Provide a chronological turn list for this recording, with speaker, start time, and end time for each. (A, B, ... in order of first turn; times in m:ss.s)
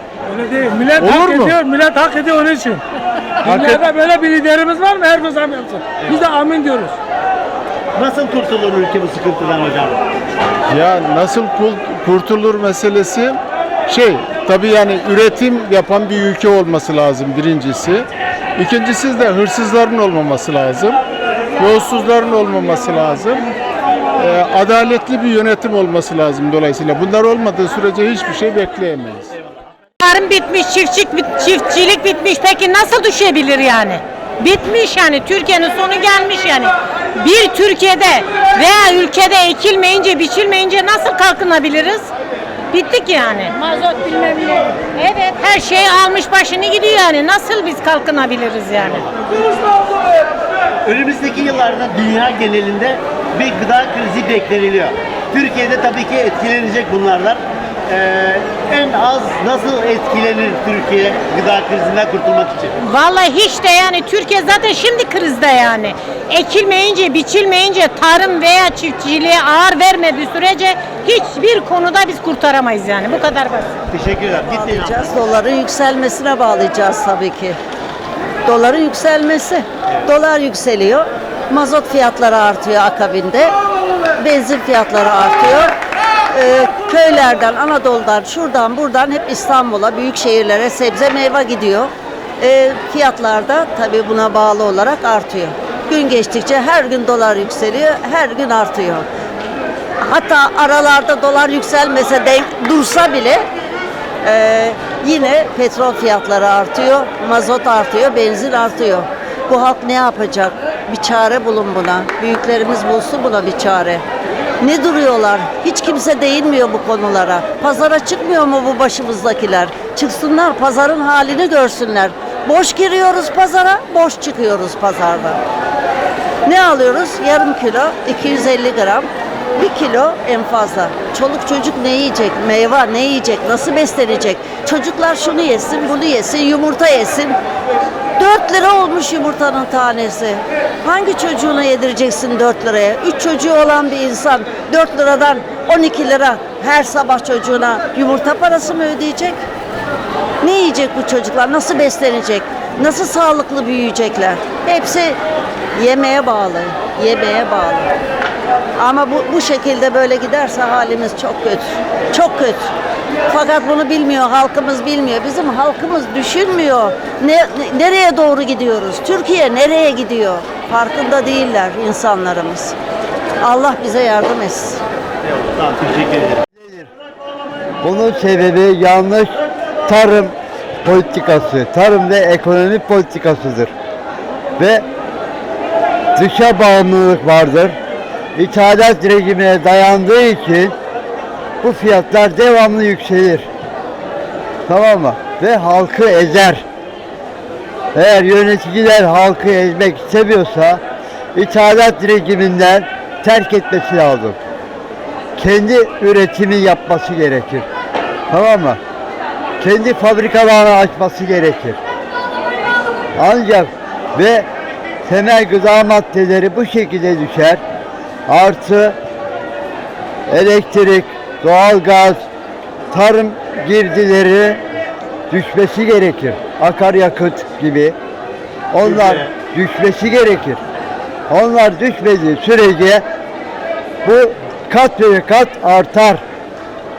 0:00.3-0:02.8 A
0:01.0-0:01.6 B
0:03.4-0:03.9 B
0:03.5-0:07.0 A
0:06.0-0:06.3 C
0:08.0-0:10.0 C
0:10.7-0:21.0 B
0:21.6-0:23.5 B
0:24.2-0:29.3 B
0:30.0-0:42.1 D
0:42.7-0:49.0 D
0:48.8-0:49.1 C
0:50.8-1:02.7 C
1:02.8-1:13.7 D
1:13.9-1:15.2 C
1:14.4-1:17.6 E
1:18.4-1:23.5 E
1:19.9-1:20.1 C
1:24.2-1:25.7 E
1:26.3-1:39.0 E
1:40.0-1:43.4 E
1:44.2-1:54.0 E
1:54.6-2:05.4 E
2:06.4-2:17.4 E
2:18.2-2:29.4 E
2:30.4-2:35.2 E
2:35.7-2:37.9 E
2:38.8-2:42.7 E
2:43.3-2:52.7 E
2:53.4-2:54.8 E
2:55.2-2:56.4 C
2:56.5-2:56.9 F
2:57.8-3:03.7 F
3:04.6-3:04.8 F
3:06.2-3:07.8 F
3:08.4-3:10.7 F
3:11.6-3:13.5 F
3:14.7-3:16.6 F
3:17.9-3:20.8 F
3:21.3-3:24.4 F
3:25.4-3:27.6 F
3:28.3-3:28.8 F
3:29.6-3:31.8 F
3:33.2-3:34.5 F
3:35.0-3:37.6 F
3:38.3-3:39.0 F
3:40.3-3:42.2 F
3:42.9-3:44.6 F
3:45.3-3:48.0 F
3:48.7-3:50.6 F
3:48.8-3:49.3 C
3:51.3-3:53.0 F
3:54.0-3:56.2 F